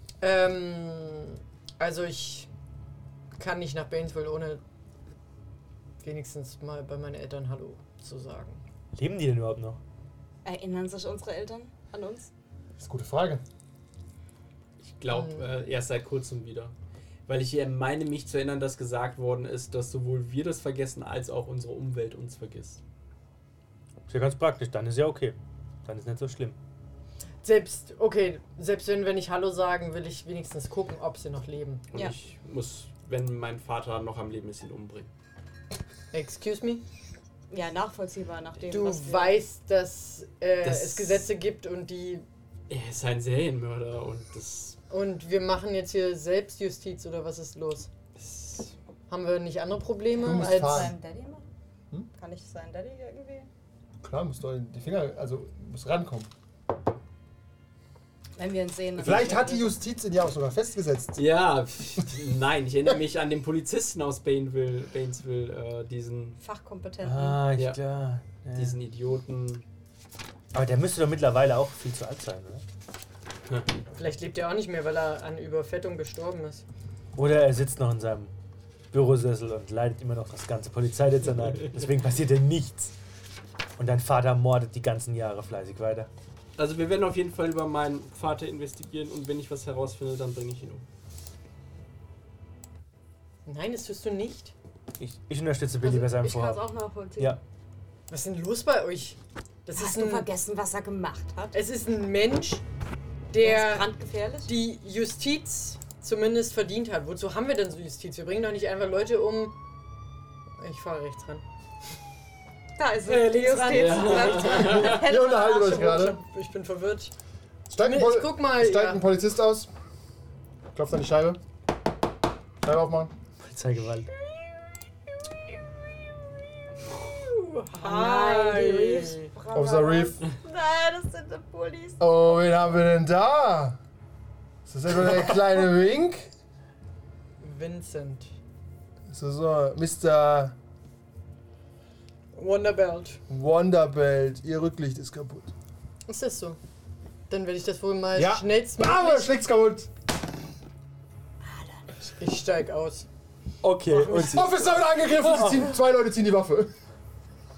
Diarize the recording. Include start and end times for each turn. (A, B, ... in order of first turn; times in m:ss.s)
0:00.2-0:02.5 A
0:03.4-0:04.6 A
0:06.0-0:08.6 A
0:08.9-0:09.8 B
0:10.4-0:12.3 C
0:12.8-0:13.4 D
0:14.8-0:16.7 E
0:17.3-0:22.8 E
0:24.1-0:26.6 B
0:27.4-0:31.8 A
0:31.9-0:35.1 E
0:36.1-0:36.8 A
0:37.5-0:39.4 C
0:38.7-0:42.2 A
0:40.6-0:41.2 E
0:42.7-0:44.8 E
0:44.9-0:47.9 A
0:48.2-0:48.7 E
0:49.1-0:50.9 A
0:50.2-0:51.4 C
0:50.2-0:50.9 D
0:52.2-0:53.5 C
0:54.0-0:56.3 D
0:58.4-0:59.8 C
0:59.0-1:01.2 D
0:59.0-0:59.3 E
1:01.2-1:06.4 E
1:06.4-1:07.5 C
1:07.0-1:08.8 B
1:08.6-1:09.6 E
1:10.5-1:12.6 B
1:13.9-1:16.6 A
1:17.1-1:18.3 B
1:18.9-1:22.9 B
1:23.8-1:26.1 B
1:26.6-1:30.8 E
1:33.4-1:34.5 A
1:35.0-1:36.6 B
1:35.8-1:37.4 C
1:38.1-1:40.3 A
1:39.8-1:41.6 C
1:41.5-1:42.6 A
1:43.3-1:43.9 A
1:43.4-1:44.5 C
1:44.4-1:49.5 A
1:50.6-1:51.4 A
1:52.8-1:56.1 C
1:53.0-1:57.1 A
1:53.7-1:55.0 E
1:54.5-1:56.2 D
1:57.7-1:59.7 D
1:57.8-1:59.0 A
2:00.7-2:01.4 D
2:02.6-2:03.1 D
2:03.4-2:04.1 B
2:07.2-2:09.3 A
2:07.7-2:12.0 C
2:09.5-2:10.2 D
2:12.0-2:13.8 D
2:14.6-2:16.3 D
2:17.4-2:18.3 A
2:19.1-2:20.5 D
2:22.3-2:23.2 A
2:23.3-2:25.5 D
2:26.1-2:26.6 A
2:27.3-2:29.3 A
2:28.1-2:29.9 D
2:32.2-2:33.1 A
2:33.6-2:34.5 B
2:33.8-2:35.6 A
2:34.1-2:36.7 D